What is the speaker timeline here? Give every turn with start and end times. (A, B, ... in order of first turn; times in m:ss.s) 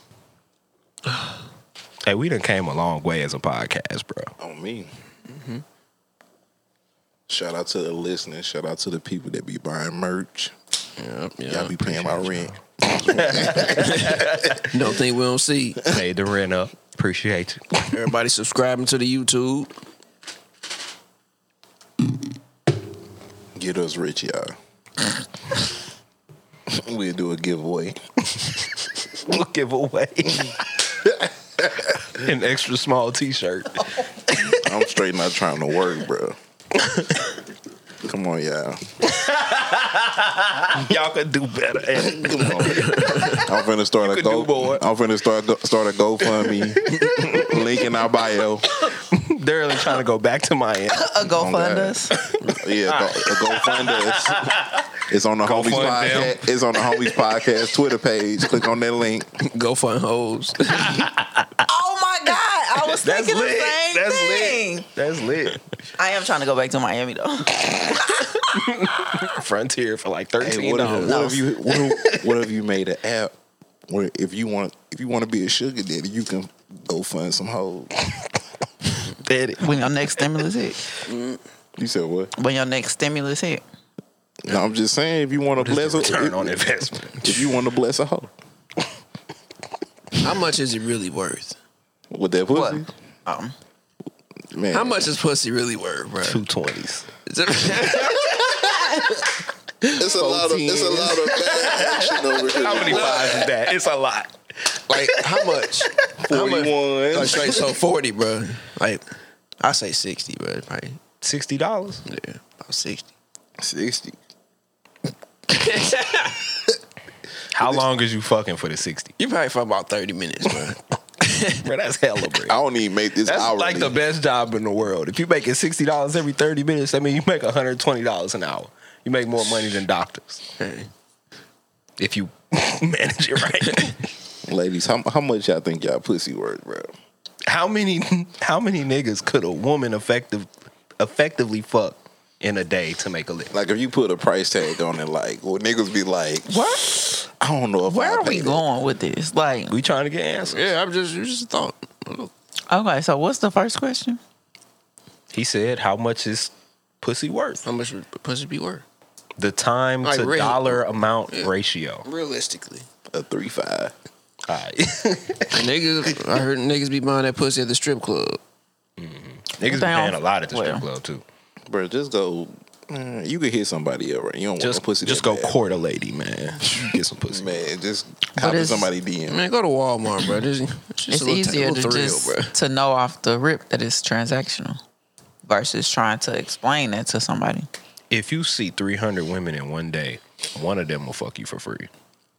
0:02.0-0:04.3 A
0:04.4-0:04.9 B
0:05.3-0:05.6 C
0:07.3-0:10.5 B
0:11.0-0:12.5 C
0:11.5-0:14.1 B
0:13.1-0:14.6 A
0:13.1-0:15.8 C
0:15.8-0:18.0 A
0:17.9-0:19.7 C
0:23.6-0:24.6 B
0:26.7-0:28.0 B
0:29.1-0:30.9 A
0:32.1-0:34.6 A
0:34.5-0:36.4 B
0:36.8-0:37.2 A
0:38.0-0:39.0 B
0:39.0-0:43.4 A
0:42.1-0:48.7 B
0:42.7-0:43.4 C
0:44.0-0:44.8 A
0:46.3-0:47.6 A
0:48.7-0:51.1 A
0:50.9-0:52.1 D
0:51.2-0:54.6 B
0:52.2-0:54.9 A
0:55.1-0:59.3 B
0:55.4-0:57.1 A
0:59.4-1:01.1 C
1:00.7-1:01.5 A
1:01.7-1:04.9 D
1:02.9-1:05.6 A
1:06.0-1:08.4 D
1:08.5-1:12.3 A
1:10.4-1:13.3 B
1:11.0-1:11.4 D
1:13.9-1:17.9 B
1:19.1-1:20.4 A
1:19.6-1:20.8 D
1:21.1-1:21.4 C
1:21.8-1:22.3 B
1:22.4-1:23.6 D
1:24.4-1:28.3 B
1:25.6-1:27.6 A
1:30.2-1:31.6 C
1:32.1-1:32.9 B
1:32.5-1:33.6 D
1:34.5-1:35.1 B
1:34.7-1:36.4 C
1:36.2-1:37.1 A
1:37.3-1:38.5 C
1:38.0-1:39.1 A
1:40.0-1:43.5 E
1:40.2-1:46.1 A
1:42.1-1:43.3 B
1:42.9-1:43.3 C
1:44.9-1:49.0 C
1:46.2-1:47.6 B
1:49.6-1:51.0 C
1:51.2-1:52.0 A
1:52.1-1:53.0 C
1:53.6-1:54.2 B
1:55.5-1:56.5 C
1:57.5-1:59.1 A
1:59.2-2:01.6 C
2:01.6-2:02.6 A
2:02.5-2:04.0 B
2:03.2-2:10.4 A
2:10.6-2:10.9 C
2:12.0-2:14.0 A
2:14.4-2:16.9 B
2:17.5-2:23.5 A
2:23.5-2:28.6 B
2:26.5-2:27.0 D
2:27.8-2:29.8 D
2:29.7-2:30.7 A
2:30.5-2:32.3 C
2:32.7-2:34.2 D
2:35.3-2:37.6 A
2:37.6-2:38.8 C
2:39.4-2:42.0 A
2:40.0-2:41.5 C
2:42.0-2:42.9 C
2:43.1-2:43.9 B
2:44.5-2:45.7 A
2:45.5-2:48.4 C
2:49.0-2:51.2 A
2:49.6-2:50.8 D
2:51.7-2:55.6 B
2:54.6-2:57.6 A
2:57.3-2:59.4 B
2:58.4-2:58.9 D
2:59.3-3:02.5 C
3:01.1-3:04.8 D
3:05.4-3:07.7 D
3:08.1-3:11.9 A